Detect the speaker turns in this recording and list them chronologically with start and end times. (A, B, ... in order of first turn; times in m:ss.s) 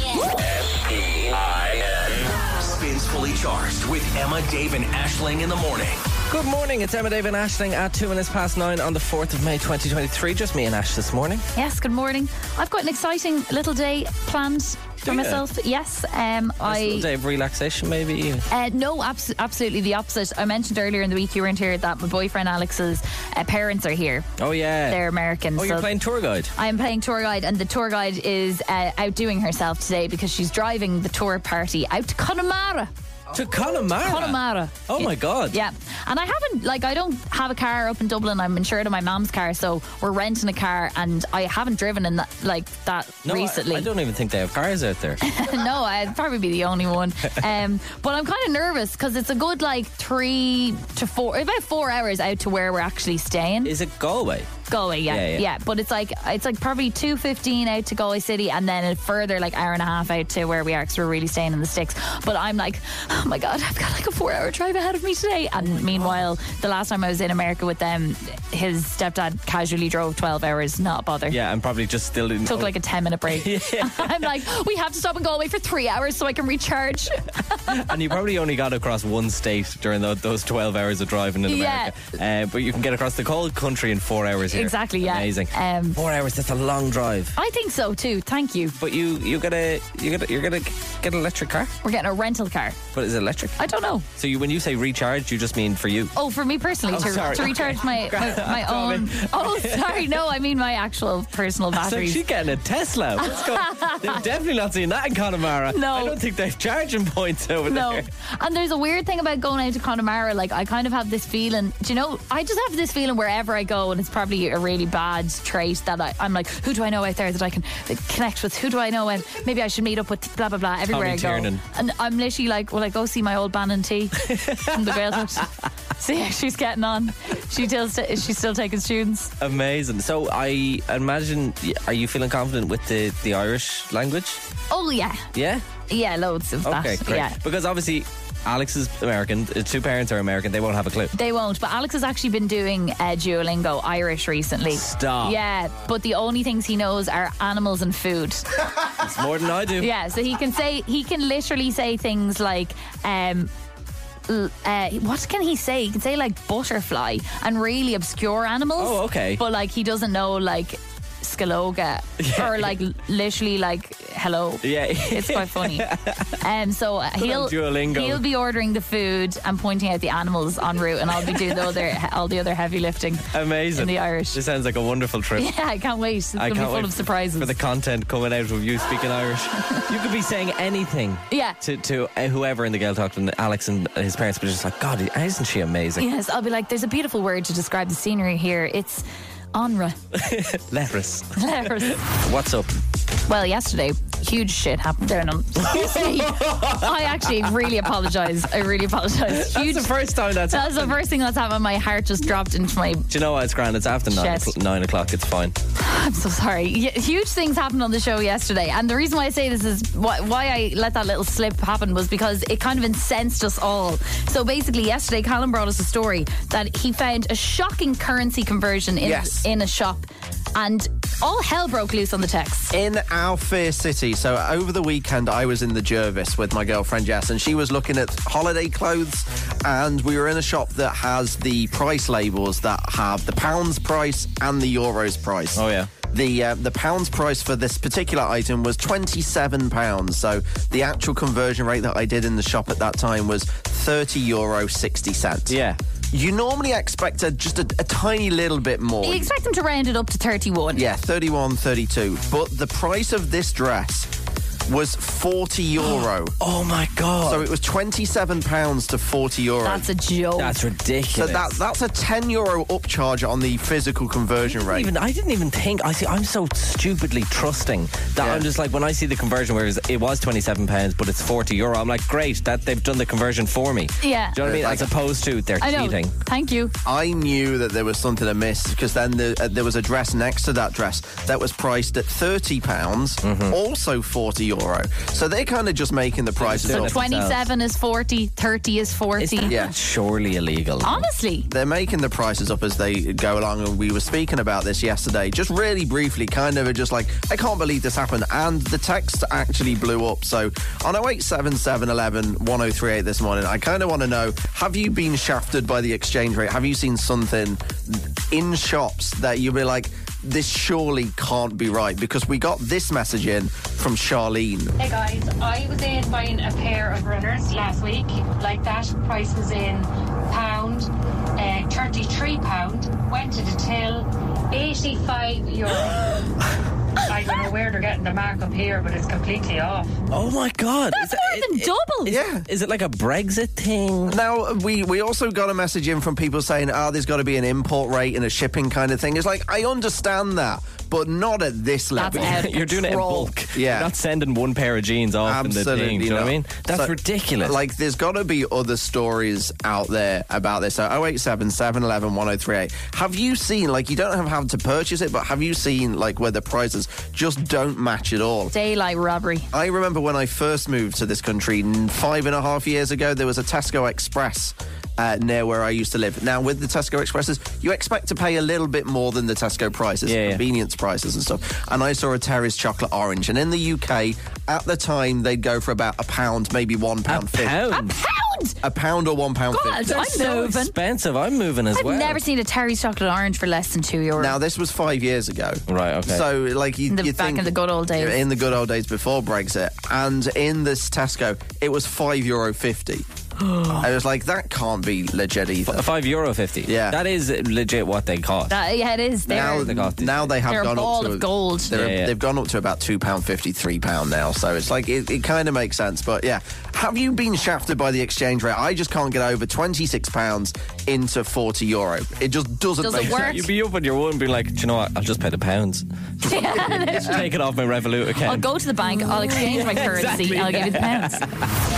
0:00.4-0:06.0 A
0:06.3-0:11.5 B
0:11.6-0:17.1 C
0:15.0-0:15.4 B
0:16.6-0:18.5 B
0:18.5-0:24.3 C
0:24.4-0:25.0 B
0:24.9-0:25.9 C
0:25.6-0:26.5 B
0:26.6-0:32.9 C
0:33.3-0:35.6 B
0:33.8-0:43.9 C
0:43.2-0:45.2 B
0:45.2-0:53.7 C
0:53.6-0:54.5 B
0:54.7-1:11.4 C
0:55.1-0:55.4 B
1:05.8-1:06.2 B
1:11.3-1:12.7 B
1:12.5-1:17.8 C
1:13.3-1:14.3 B
1:17.7-1:27.4 B
1:21.5-1:21.9 C
1:24.5-1:26.0 C
1:27.4-1:28.8 C
1:28.8-1:31.7 B
1:31.8-1:32.8 C
1:32.9-1:33.6 B
1:33.6-1:34.1 C
1:34.2-1:36.1 B
1:36.2-1:42.2 C
1:36.9-1:40.1 B
1:41.7-1:48.1 B
1:43.2-1:44.2 C
1:45.7-1:46.2 C
1:47.7-2:09.3 C
2:00.9-2:01.6 B
2:04.2-2:05.5 B
2:09.4-2:14.4 B
2:14.7-2:15.3 C
2:15.3-2:15.7 B
2:15.9-2:17.4 C
2:16.6-2:21.1 B
2:21.1-2:28.5 C
2:24.7-2:25.4 B
2:29.0-2:29.9 B
2:29.8-2:33.5 C
2:34.3-2:45.9 C
2:38.8-2:39.4 B
2:42.2-2:42.7 B
2:44.6-2:46.4 B
2:46.4-2:54.4 C
2:47.2-2:48.2 B
2:51.2-2:51.7 B
2:53.3-2:55.5 B
2:55.4-2:57.5 C
2:56.4-3:06.1 B
3:01.3-3:01.6 C
3:06.0-3:10.0 C
3:10.1-3:12.7 B
3:11.4-3:12.0 C
3:13.3-3:19.9 C
3:15.6-3:16.9 B
3:19.3-3:21.0 B
3:20.5-3:23.1 C
3:23.1-3:25.6 B
3:24.1-3:24.5 C
3:25.8-3:42.8 C
3:39.0-3:39.4 D
3:42.7-4:05.6 D
3:55.6-3:55.9 B
4:05.5-4:05.8 B
4:06.1-4:09.3 D
4:09.0-4:10.8 C
4:10.7-4:14.1 D
4:14.7-4:16.4 D
4:16.4-4:17.5 B
4:17.2-4:19.9 D
4:19.6-4:20.6 C
4:20.4-4:21.6 B
4:21.1-4:24.9 D
4:24.5-4:36.1 B
4:28.2-4:28.5 D
4:34.0-4:34.4 C
4:34.4-4:34.9 D
4:35.6-4:36.7 C
4:36.8-4:47.0 D
4:43.2-4:43.6 B
4:46.4-4:47.5 B
4:46.7-4:49.6 C
4:49.2-4:51.1 B
4:49.5-4:49.7 D
4:50.8-4:51.5 C
4:51.5-5:14.7 D
5:14.8-5:26.3 E
5:27.0-5:30.0 E
5:30.1-5:34.2 B
5:30.9-5:32.2 C
5:32.1-5:32.5 D
5:34.1-5:42.4 D
5:42.0-5:43.3 C
5:42.1-5:47.6 B
5:43.5-5:43.9 D
5:45.2-5:58.5 D
5:58.5-5:59.5 C
5:59.5-6:17.6 D
6:10.1-6:10.4 B
6:17.1-6:17.9 B
6:17.7-6:18.6 C
6:18.6-6:20.0 D
6:19.5-6:20.7 C
6:19.9-6:22.2 B
6:21.7-6:24.4 C
6:24.2-6:33.1 D
6:25.7-6:26.3 B
6:26.9-6:28.2 C
6:33.4-6:33.8 C
6:33.8-6:35.9 D
6:35.7-6:38.6 B
6:36.6-6:37.0 D
6:38.5-6:39.8 C
6:39.3-6:53.5 D
6:39.3-6:40.3 B
6:40.4-6:41.7 C
6:41.7-6:42.1 B
6:52.8-6:53.4 C
6:53.0-6:58.5 B
6:56.2-6:57.3 C
6:58.3-7:01.2 C
6:59.1-7:01.5 B